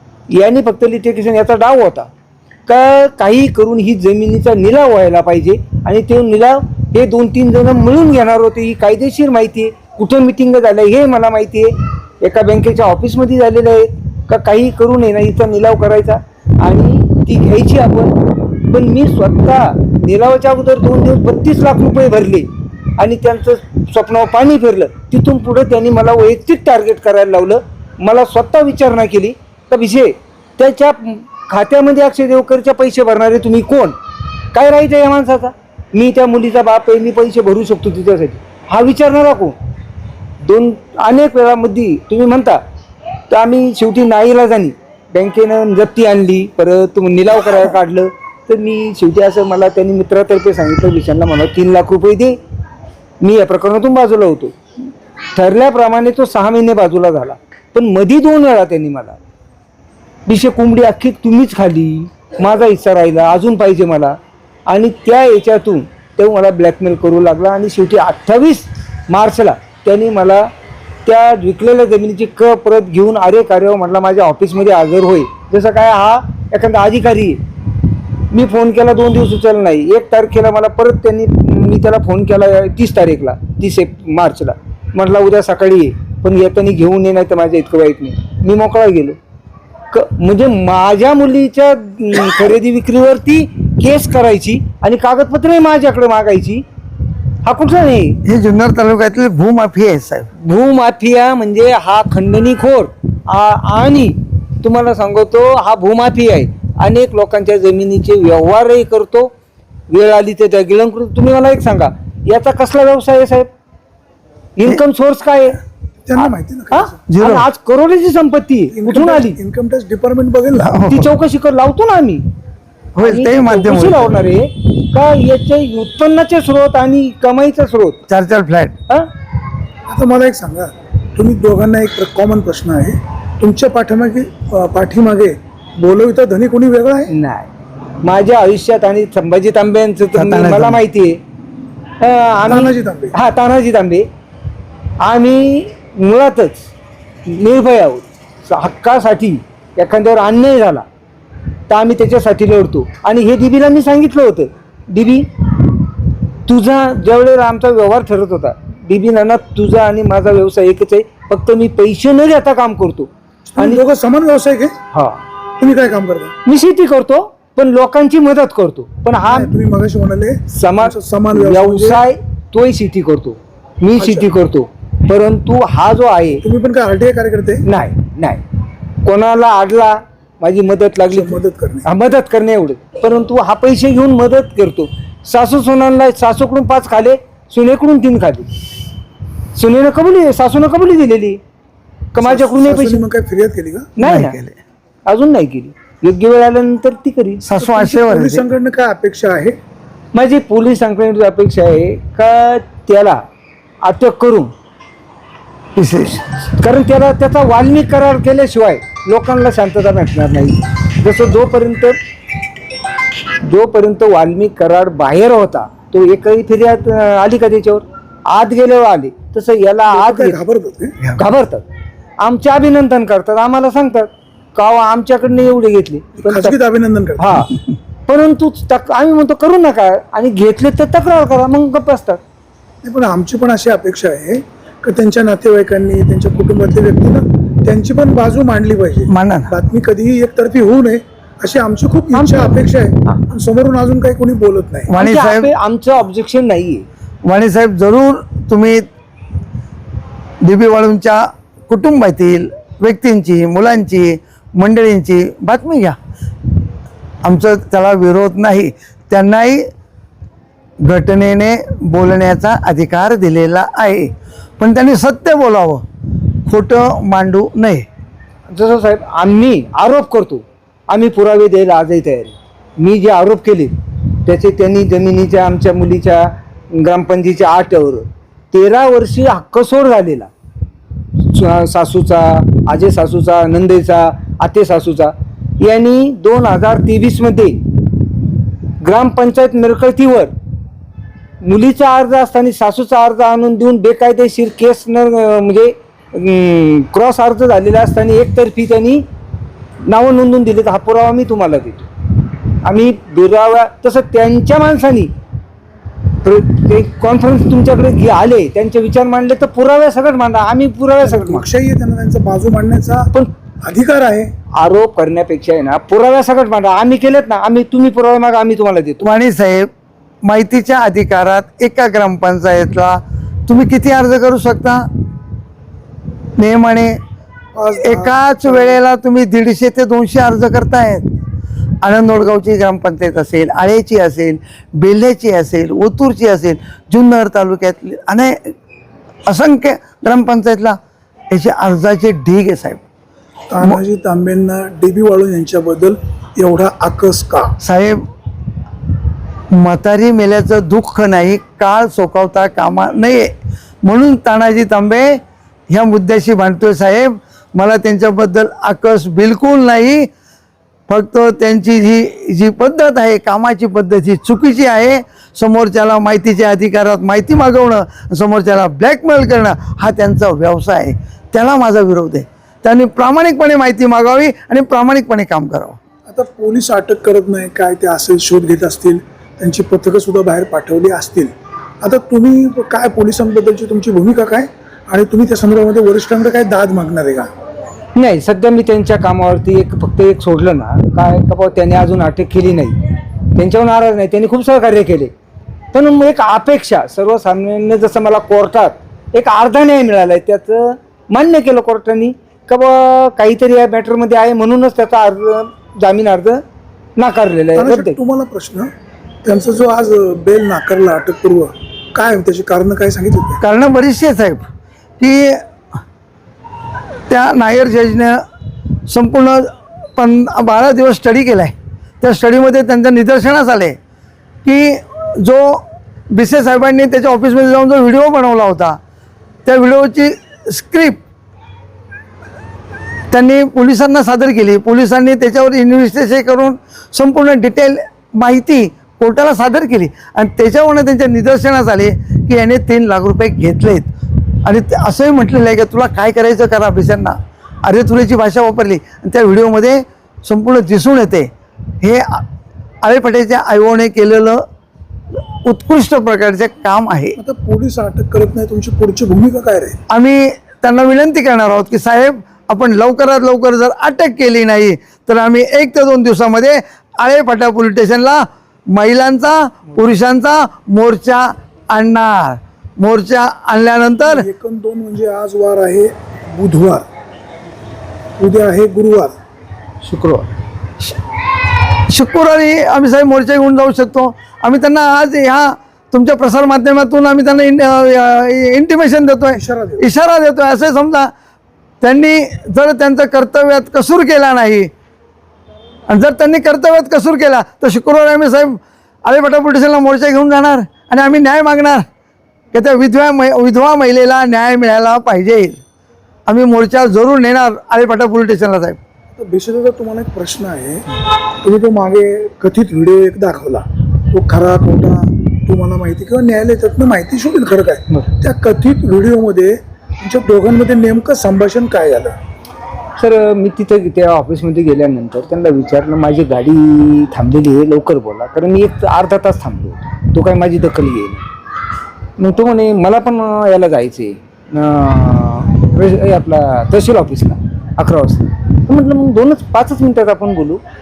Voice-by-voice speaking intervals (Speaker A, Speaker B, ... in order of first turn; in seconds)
Speaker A: 0.3-2.1, 2.7-34.0, 34.5-39.6, 40.4-42.6, 43.3-52.4, 53.2-54.6, 55.4-59.2, 60.3-70.5, 71.0-77.4, 78.3-89.2, 89.9-96.7, 97.4-98.2, 100.4-109.3, 109.9-113.5, 114.6-115.6, 116.2-119.4, 120.9-122.3, 123.0-128.1, 137.1-137.5, 138.0-141.2, 142.0-144.1, 145.0-146.7, 147.3-150.9, 151.7-155.3, 156.5-163.8, 164.9-165.2, 166.5-169.5, 170.5-176.4, 177.7-178.4, 179.1-188.5, 189.6-191.4, 192.1-193.0, 194.0-194.4, 195.1-197.4, 200.2-203.2, 203.8-204.5, 206.6-212.0, 213.4-220.4, 221.2-221.7, 222.2-226.6, 227.2-227.5, 228.1-232.2, 242.1-242.6, 245.0-246.9, 268.5-273.7, 274.2-280.3, 281.3-287.6, 288.8-290.3, 291.4-299.0, 299.9-301.9, 302.6-305.1, 306.2-311.5, 314.5-319.1, 388.0-392.8, 393.4-395.1, 395.7-406.4, 407.0-408.0, 479.8-480.3, 523.0-531.2, 532.2-540.6
Speaker B: 98.2-100.3, 117.1-117.5, 120.6-121.1, 123.0-124.2, 128.1-128.8, 140.2-140.8, 194.0-194.6, 197.4-198.4, 205.8-206.2, 239.1-239.5, 244.9-245.5, 247.2-248.8, 250.4-256.0, 257.2-259.7, 260.8-265.8, 266.5-267.9, 319.0-319.7, 320.2-324.9, 326.4-327.0, 327.8-331.1, 331.8-338.5, 339.3-340.8, 341.3-342.8, 347.6-348.1, 349.5-353.3, 353.8-360.1, 360.9-375.8, 413.4-414.5, 415.0-415.4, 417.1-418.2, 418.9-423.8, 424.4-428.8, 429.4-431.0, 433.1-443.9, 444.4-452.3, 452.8-454.4, 455.4-457.2, 459.9-474.3, 481.9-491.1, 491.8-494.7, 495.9-501.9, 502.5-505.6, 506.3-508.8
Speaker C: 116.1-117.0, 118.7-120.8, 129.9-137.1, 142.5-143.1, 163.6-164.8, 165.6-166.3, 169.3-172.0, 174.0-174.3, 176.4-177.7, 181.1-181.9, 192.2-193.9, 197.6-199.6, 219.9-221.0, 226.2-227.5, 232.8-244.9, 311.0-313.1, 313.6-314.3, 327.6-328.8, 343.5-347.5, 376.1-387.3, 407.6-408.7, 409.2-413.4, 457.2-459.8, 474.0-476.9, 478.2-479.1, 489.3-489.8, 509.2-510.9, 511.4-522.1